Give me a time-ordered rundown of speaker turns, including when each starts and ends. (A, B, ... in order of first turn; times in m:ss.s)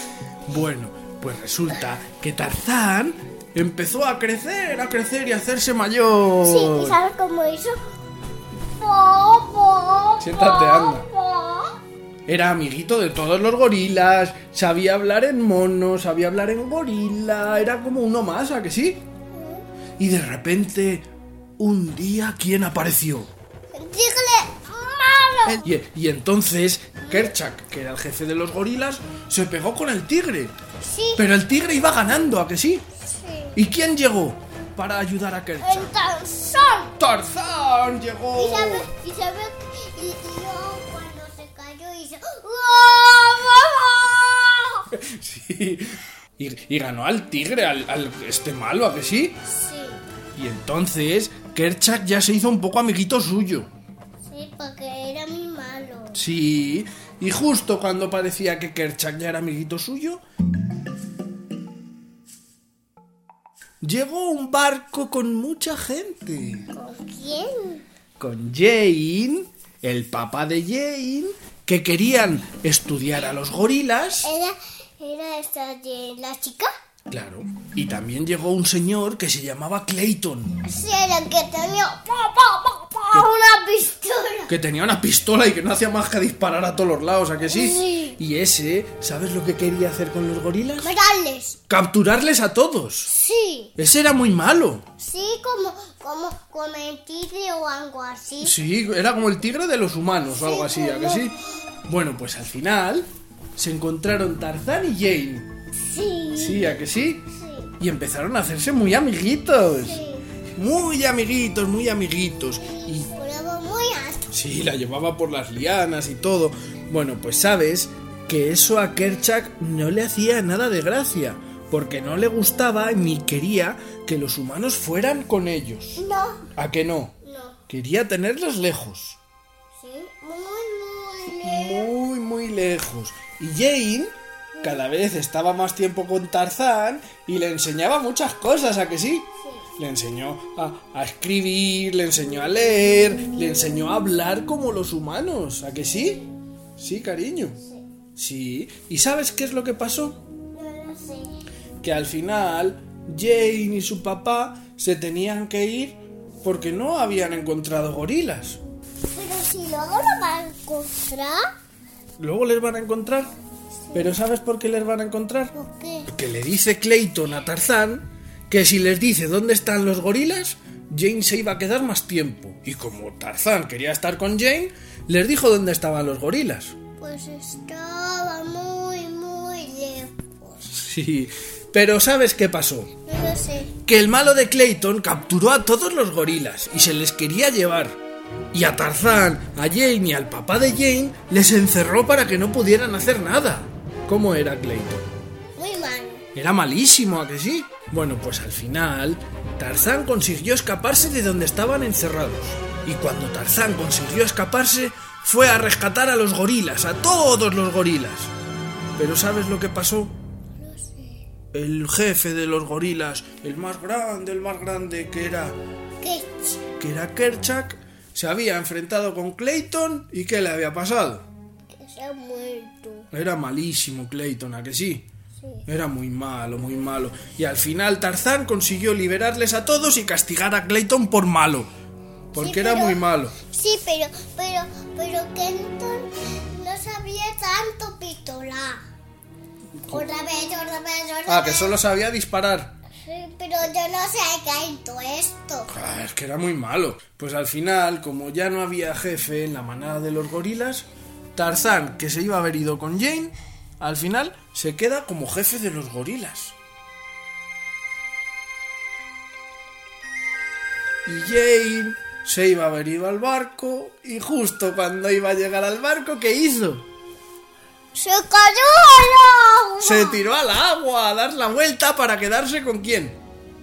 0:00.5-0:07.0 A
0:06.4-0:07.8 B
0:08.7-0:11.7 B
0:10.2-0:11.0 A
0:12.3-0:19.0 A
0:19.3-0:19.6 B
0:20.0-0:21.1 A
0:21.6-0:23.3 A
0:23.7-0:25.7 B
0:25.4-0:30.5 A
0:27.0-0:27.3 B
0:30.8-0:31.2 B
0:31.2-0:32.8 A
0:33.0-0:33.6 B
0:33.6-0:35.9 A
0:35.6-0:37.0 B
0:37.0-0:38.9 A
0:38.4-0:44.9 B
0:44.9-0:49.4 A
0:49.4-0:50.0 B
0:50.3-0:53.7 A
0:54.2-0:56.2 B
0:56.1-1:00.2 A
1:03.8-1:06.7 A
1:06.7-1:07.8 B
1:08.2-1:14.3 A
1:14.2-1:16.7 B
1:17.1-1:20.6 A
1:20.6-1:24.5 B
1:24.5-1:30.9 A
1:27.5-1:28.2 B
1:30.8-1:31.6 B
1:31.7-1:33.1 A
1:33.0-1:33.7 B
1:33.8-1:34.8 A
1:35.0-1:38.6 B
1:38.4-1:41.3 A
1:40.3-1:41.4 B
1:41.8-1:45.5 A
1:45.8-1:47.7 B
1:46.4-1:47.2 A
1:47.8-1:50.0 A
1:49.7-1:50.3 B
1:50.5-1:53.1 A
1:52.6-1:54.3 B
1:54.3-2:06.0 A
2:06.0-2:06.4 B
2:06.5-2:07.1 A
2:07.2-2:07.6 B
2:07.7-2:09.2 A
2:09.8-2:11.9 B
2:11.4-2:26.2 A
2:19.4-2:19.7 B
2:25.9-2:26.3 B
2:26.8-2:27.6 A
2:28.2-2:30.2 A
2:30.5-2:31.3 B
2:31.8-2:38.6 A
2:39.1-2:41.5 B
2:42.2-2:43.3 A
2:43.9-2:45.5 A
2:45.5-2:46.1 B
2:46.1-2:56.7 A
2:57.0-3:00.6 B
3:00.6-3:02.9 A
3:03.0-3:03.7 B
3:03.8-3:08.0 A
3:08.5-3:15.0 A
3:15.6-3:16.2 B
3:16.3-3:28.3 A
3:29.0-3:30.1 A
3:30.6-3:31.2 B
3:31.5-3:35.6 A
3:36.0-3:36.6 B
3:36.8-3:41.2 A
3:41.7-3:43.1 B
3:43.1-3:45.0 A
3:45.4-3:45.6 B
3:45.7-3:51.7 A
3:52.3-3:53.4 A
3:52.3-3:58.8 B
3:59.9-4:01.8 B
4:01.3-4:02.7 A
4:03.0-4:05.7 B
4:05.7-4:16.6 A
4:21.0-4:26.8 A
4:27.9-4:30.2 B
4:29.8-4:33.2 A